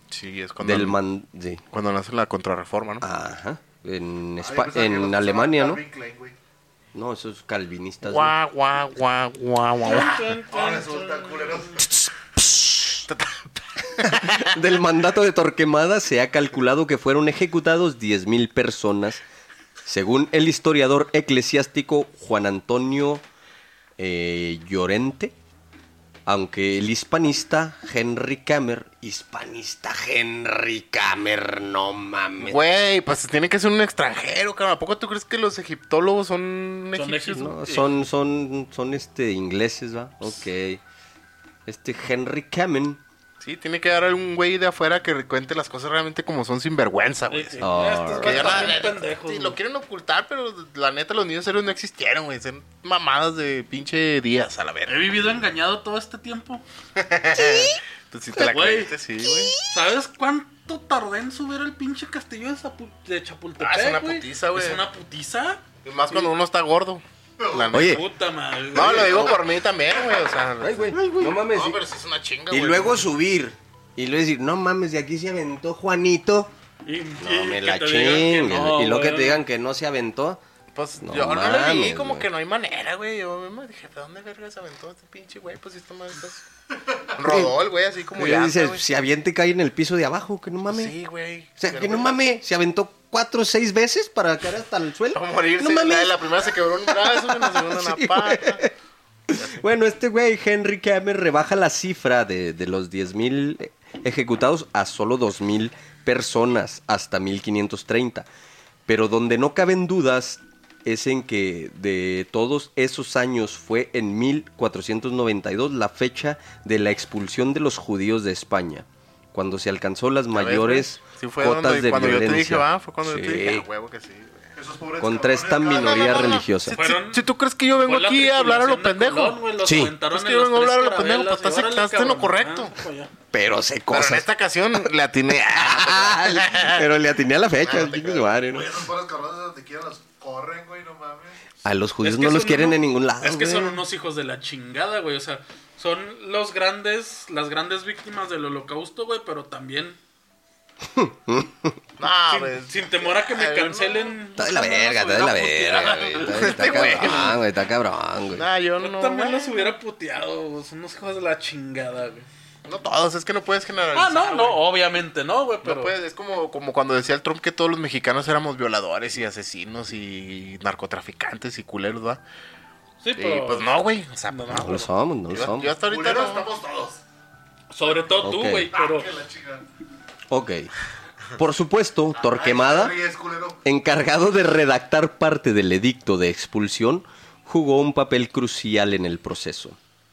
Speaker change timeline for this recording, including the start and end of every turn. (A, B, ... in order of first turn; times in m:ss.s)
0:00.1-0:01.0 A
0:00.6-0:01.6 B
0:01.7-0:03.0 A
0:03.0-0:05.8 B
0:04.4-0:06.4 C
0:06.9-0:08.3 B
0:08.0-0:10.2 A
0:09.8-0:11.8 D
0:09.9-0:12.0 C
0:12.4-0:14.5 A
0:14.0-0:19.2 B
0:19.9-0:23.2 B
0:24.0-0:25.4 B
0:26.3-0:32.6 B
0:32.4-0:37.5 A
0:37.0-0:37.9 D
0:37.4-0:40.8 B
0:41.7-0:43.0 B
0:43.4-0:55.1 A
0:47.3-0:49.6 D
0:47.6-0:48.8 B
0:54.9-0:56.6 D
0:57.0-0:59.6 A
0:57.4-0:57.8 B
0:58.4-0:59.0 D
0:59.6-1:06.3 D
1:03.6-1:04.8 A
1:05.8-1:08.1 A
1:07.4-1:07.7 C
1:07.7-1:08.0 B
1:07.8-1:09.4 D
1:08.7-1:13.0 A
1:08.8-1:09.3 B
1:10.6-1:11.8 B
1:12.5-1:16.5 B
1:16.8-1:19.4 D
1:17.2-1:20.4 B
1:20.8-1:26.4 A
1:21.0-1:22.3 B
1:27.1-1:28.8 A
1:27.3-1:27.5 B
1:28.2-1:30.9 B
1:30.7-1:32.1 A
1:31.6-1:36.2 B
1:35.1-1:38.6 A
1:36.8-1:38.7 B
1:39.3-1:48.3 B
1:48.9-2:03.7 B
2:00.3-2:04.5 A
2:04.6-2:06.5 C
2:05.0-2:06.8 B
2:05.7-2:09.4 A
2:06.7-2:07.2 D
2:07.8-2:13.1 D
2:09.6-2:09.9 B
2:10.1-2:12.7 A
2:13.3-2:14.2 B
2:13.9-2:16.9 A
2:15.5-2:18.8 B
2:17.6-2:18.4 A
2:18.5-2:21.4 C
2:21.6-2:23.8 B
2:22.0-2:30.0 D
2:30.8-2:31.8 B
2:32.0-2:34.2 A
2:32.3-2:37.3 D
2:34.4-2:38.5 B
2:36.2-2:37.4 A
2:38.4-2:39.7 A
2:38.8-2:42.3 D
2:42.7-2:44.6 A
2:43.9-2:46.0 D
2:45.6-2:52.2 A
2:53.0-2:53.8 D
2:53.2-2:56.5 A
2:54.3-2:54.8 D
2:54.5-2:55.7 B
2:55.8-2:57.0 C
2:57.7-2:59.2 D
2:57.8-2:59.7 C
2:58.2-2:58.7 B
3:00.3-3:00.7 B
3:01.4-3:03.0 B
3:02.2-3:03.6 C
3:03.6-3:09.8 B